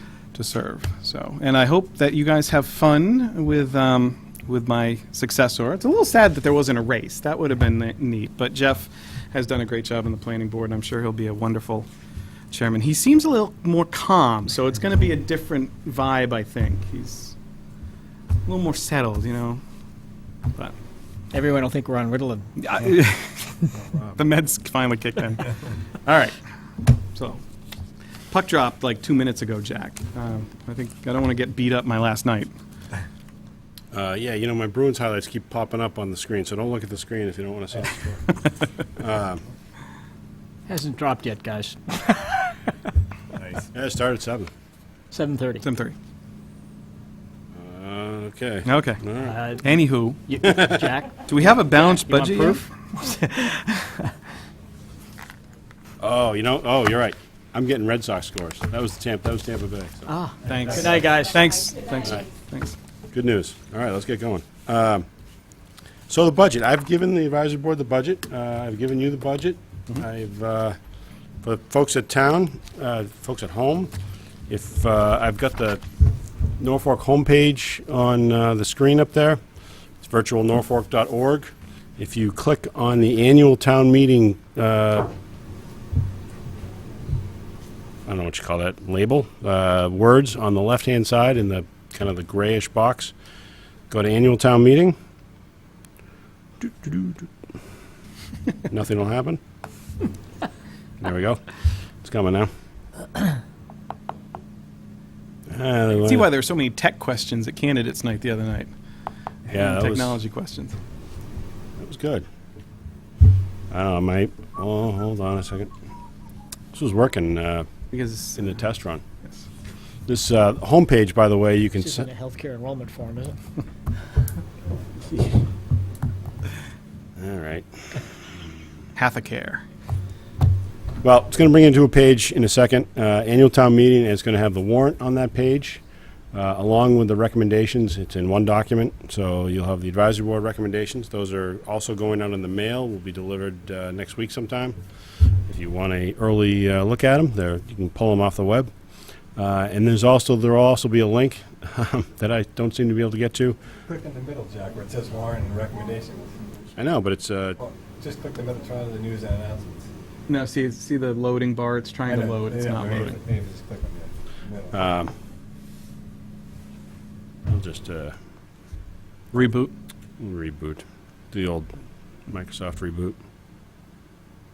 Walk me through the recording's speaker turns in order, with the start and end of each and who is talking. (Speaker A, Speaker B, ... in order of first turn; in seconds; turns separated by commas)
Speaker A: 0.3-11.9, Speaker A: 12.5-17.4, Speaker A: 18.5-19.6, Speaker B: 21.3-22.5, Speaker A: 22.6-26.4, Speaker A: 27.1-27.4, Speaker A: 28.3-32.5, Speaker C: 33.9-38.2, Speaker C: 39.0-39.4, Speaker B: 40.7-42.6, Speaker C: 43.7-44.5, Speaker B: 45.1-45.6, Speaker A: 45.6-46.0, Speaker C: 47.5-49.4, Speaker A: 48.6-49.0, Speaker B: 49.2-49.6, Speaker A: 49.6-50.5, Speaker B: 50.3-54.1, Speaker C: 50.5-50.8, Speaker A: 51.2-52.7, Speaker C: 56.0-60.1, Speaker B: 60.1-61.5, Speaker A: 60.4-62.8, Speaker C: 63.1-65.1, Speaker C: 66.1-70.8, Speaker C: 71.4-73.9, Speaker C: 74.5-75.8, Speaker C: 76.6-79.4, Speaker C: 80.0-85.1, Speaker C: 88.1-93.1, Speaker C: 93.9-95.0, Speaker C: 96.6-97.3, Speaker C: 98.7-99.4, Speaker C: 101.0-101.4, Speaker C: 102.0-102.5, Speaker C: 105.5-106.3, Speaker A: 105.9-108.7, Speaker A: 109.5-110.8, Speaker C: 109.5-110.2, Speaker C: 111.8-112.2, Speaker C: 113.7-115.7, Speaker C: 116.7-117.7, Speaker A: 117.9-118.6, Speaker C: 118.4-119.0, Speaker C: 120.1-122.1, Speaker B: 121.8-123.4, Speaker C: 127.2-128.0, Speaker A: 128.9-129.6, Speaker C: 131.0-135.8, Speaker C: 136.3-144.8, Speaker C: 145.5-148.7, Speaker C: 149.4-153.6, Speaker D: 153.9-156.5, Speaker C: 156.8-157.6, Speaker D: 157.6-159.9, Speaker A: 160.3-163.2, Speaker D: 162.1-164.8, Speaker C: 164.7-165.1, Speaker C: 167.5-168.2, Speaker A: 169.3-169.7, Speaker C: 170.2-171.7, Speaker C: 172.3-173.2